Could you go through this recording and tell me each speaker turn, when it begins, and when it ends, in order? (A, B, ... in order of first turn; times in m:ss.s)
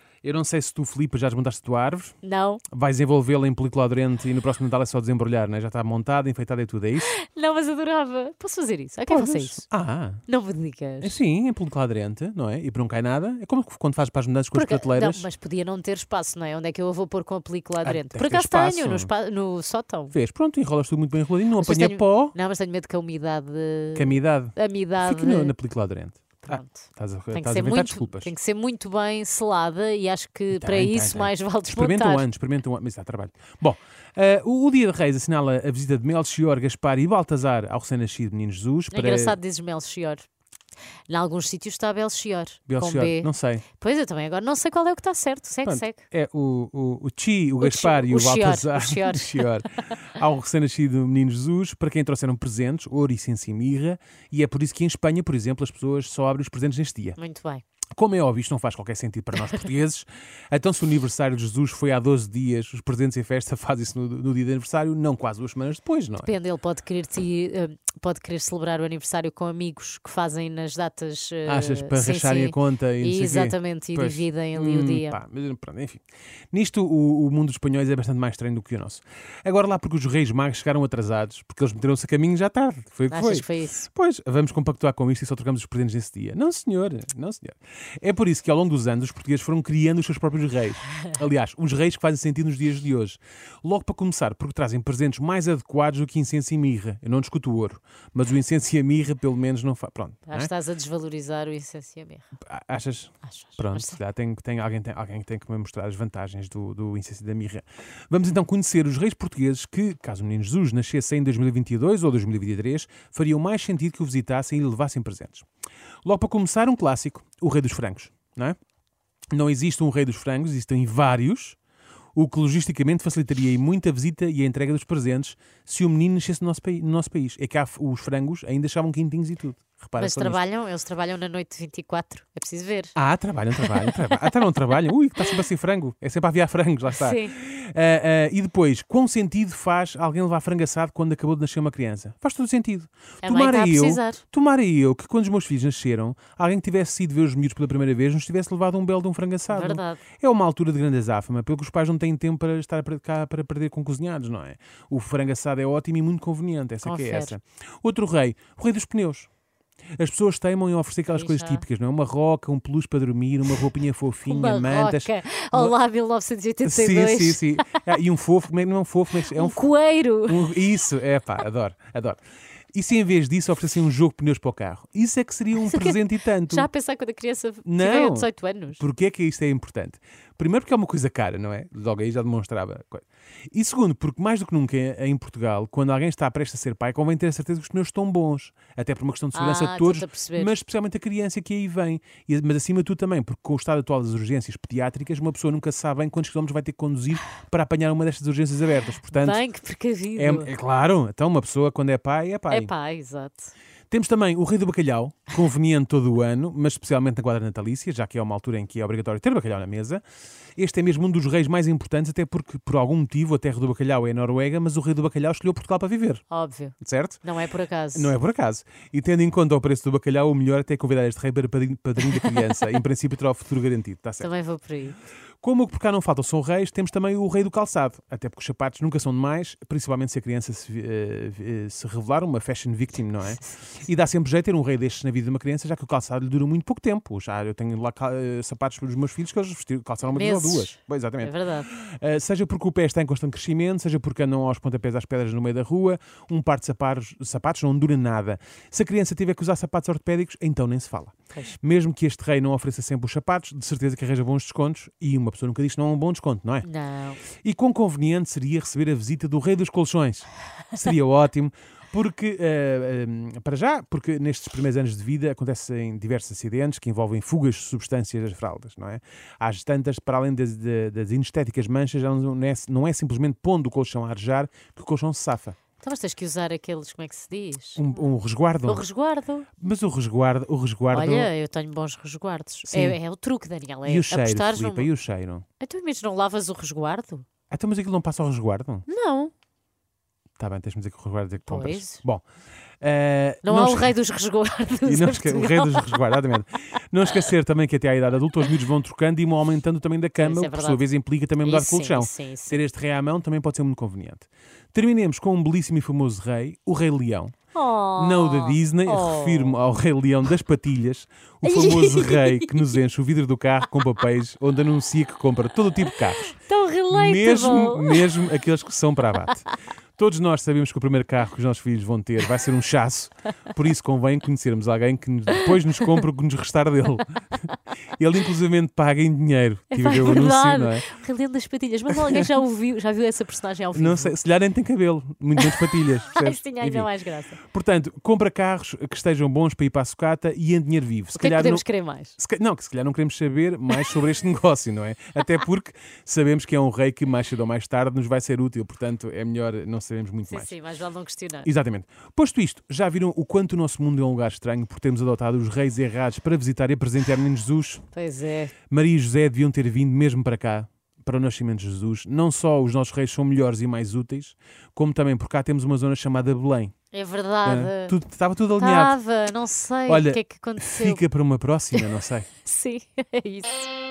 0:00.2-0:02.1 A
0:02.2-0:02.6 B
0:02.7-0:07.1 A
0:07.0-0:09.6 B
0:09.1-0:10.2 A
0:10.3-0:11.2 B
0:11.0-0:15.3 A
0:14.5-0:20.1 B
0:17.8-0:19.1 A
0:20.1-0:22.3 A
0:21.6-0:25.6 B
0:23.9-0:28.3 A
0:26.4-0:32.3 B
0:30.5-0:39.4 A
0:38.9-0:40.2 B
0:41.1-0:46.0 B
0:42.7-0:43.6 A
0:45.6-0:57.2 A
0:47.6-0:49.6 B
0:57.2-0:57.6 B
0:58.0-1:06.3 A
1:06.2-1:15.2 B
1:11.4-1:40.5 A
1:23.1-1:23.9 B
1:40.3-1:42.3 B
1:42.5-1:55.4 A
1:43.3-1:44.0 B
1:56.0-1:58.6 A
1:59.3-2:01.6 A
2:02.2-2:10.4 A
2:10.0-2:13.0 B
2:13.0-2:39.3 A
2:13.6-2:13.9 B
2:16.9-2:17.4 B
2:23.2-2:24.2 B
2:29.5-2:30.0 B
2:36.8-2:37.3 B
2:40.0-2:45.8 A
2:41.1-2:41.6 B
2:44.3-2:47.8 B
2:46.6-2:49.7 A
2:49.2-2:50.5 B
2:50.2-2:52.2 A
2:52.7-2:56.7 A
2:55.6-2:58.8 B
2:57.6-3:19.4 A
3:09.3-3:10.5 B
3:19.1-3:20.5 B
3:20.2-3:22.7 A
3:22.5-3:23.5 B
3:23.9-3:30.0 A
3:30.6-3:36.2 A
3:36.3-3:38.1 B
3:36.8-3:37.2 A
3:37.9-3:44.3 A
3:44.2-3:45.0 B
3:45.4-4:16.7 A
4:00.1-4:01.7 B
4:16.6-4:17.2 B
4:17.4-4:35.6 A
4:35.8-4:37.8 B
4:37.8-4:38.8 A
4:38.6-4:39.5 B
4:39.6-4:41.3 A
4:40.9-4:44.9 B
4:42.7-4:43.0 A
4:43.8-4:45.4 A
4:45.6-4:47.2 B
4:47.5-4:48.8 A
4:48.9-4:49.3 B
4:50.4-4:52.2 A
4:51.5-4:52.0 B
4:52.8-4:54.0 A
4:53.4-4:56.1 B
4:54.8-5:07.3 A
5:00.2-5:00.8 B
5:01.4-5:02.6 B
5:07.5-5:09.6 B
5:08.0-5:16.4 A
5:11.4-5:12.8 B
5:16.2-5:18.2 B
5:16.9-5:27.2 A
5:28.0-5:30.9 A
5:29.7-5:34.2 B
5:33.7-5:36.9 A
5:35.4-5:37.4 B
5:37.4-5:41.6 A
5:41.1-5:42.1 B
5:42.2-5:50.5 A
5:50.2-5:51.5 B
5:51.4-5:57.8 A
5:57.9-5:58.5 B
5:58.7-6:06.7 A
6:06.9-6:07.9 B
6:07.4-6:09.0 A
6:08.6-6:11.0 B
6:09.9-6:12.3 A
6:12.4-6:13.7 B